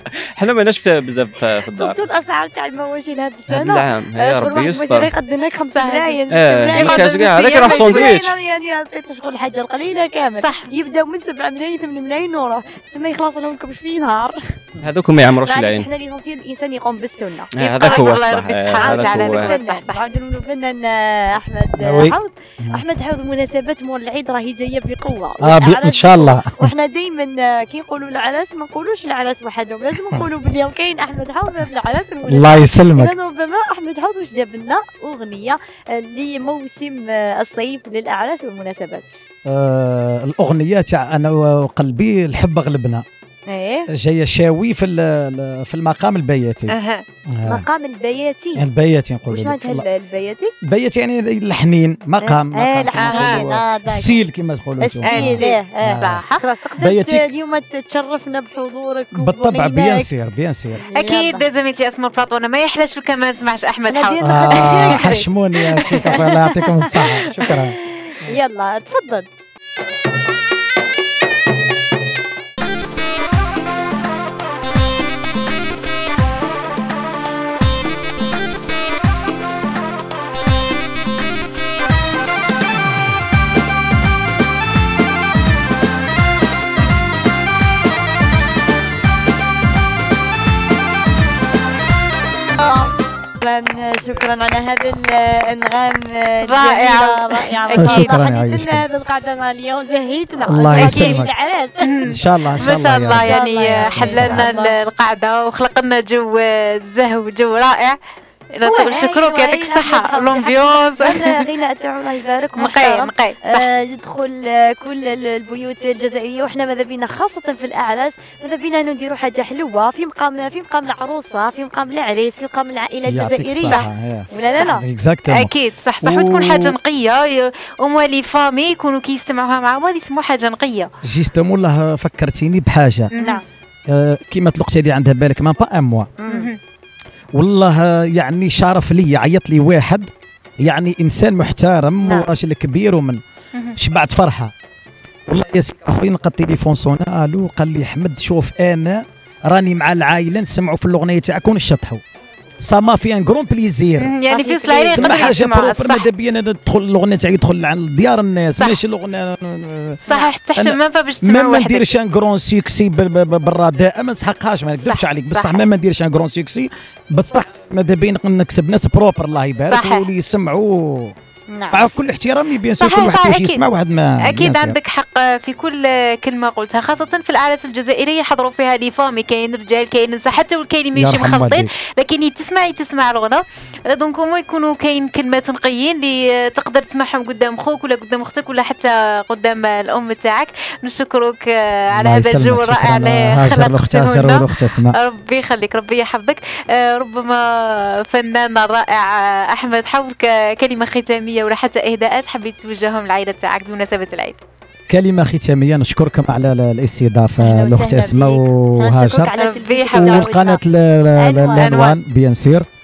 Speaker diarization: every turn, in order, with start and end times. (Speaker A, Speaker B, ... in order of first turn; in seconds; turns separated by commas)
Speaker A: 0.3-2.0, Speaker B: 1.7-14.5, Speaker A: 3.5-5.1, Speaker C: 5.7-6.2, Speaker A: 6.3-8.4, Speaker C: 6.8-8.2, Speaker C: 10.3-10.7, Speaker A: 14.8-15.9, Speaker B: 15.4-17.9, Speaker A: 17.5-19.6, Speaker C: 17.6-20.0, Speaker B: 18.7-39.0, Speaker D: 21.8-22.8, Speaker D: 25.4-26.7, Speaker D: 32.2-33.1, Speaker D: 39.5-43.0, Speaker B: 43.5-43.9, Speaker D: 44.0-46.8, Speaker C: 46.7-47.0, Speaker D: 47.3-47.6, Speaker B: 47.5-48.6, Speaker D: 48.5-49.9, Speaker B: 49.3-50.5, Speaker D: 50.7-56.2, Speaker B: 52.2-54.2, Speaker C: 52.9-53.4, Speaker B: 54.8-60.1, Speaker C: 55.0-56.4, Speaker D: 56.8-57.3, Speaker D: 59.1-60.8, Speaker B: 60.8-61.4, Speaker C: 61.0-65.1, Speaker B: 63.9-65.3, Speaker D: 64.2-68.3, Speaker B: 65.9-69.3, Speaker B: 93.4-102.1, Speaker C: 96.4-98.2, Speaker D: 97.7-98.8, Speaker D: 100.5-101.3, Speaker C: 100.7-101.2, Speaker C: 101.8-108.0, Speaker D: 102.1-104.5, Speaker B: 103.1-104.7, Speaker C: 108.5-111.4, Speaker B: 108.6-124.8, Speaker C: 112.6-113.7, Speaker D: 123.1-125.5, Speaker C: 125.3-130.9, Speaker D: 126.0-126.7, Speaker D: 131.1-133.1, Speaker C: 133.1-133.4, Speaker B: 133.2-133.4, Speaker D: 133.9-136.1, Speaker B: 136.2-136.5, Speaker C: 136.3-136.6, Speaker D: 137.3-140.1, Speaker D: 140.6-143.2, Speaker D: 143.8-144.5, Speaker D: 145.3-152.0, Speaker D: 152.6-154.1, Speaker C: 154.0-156.1, Speaker B: 154.3-155.4, Speaker D: 154.9-160.0, Speaker C: 160.1-161.9, Speaker D: 160.6-171.1, Speaker C: 164.8-165.7, Speaker C: 169.7-170.1, Speaker B: 171.5-171.9, Speaker D: 171.7-174.8, Speaker C: 172.8-173.6, Speaker C: 174.2-197.4, Speaker D: 180.9-181.7, Speaker D: 191.9-194.9, Speaker C: 198.1-204.4, Speaker D: 204.9-209.3, Speaker B: 207.4-210.6, Speaker C: 209.3-210.3, Speaker D: 209.9-212.7, Speaker B: 211.2-211.8, Speaker C: 211.6-211.9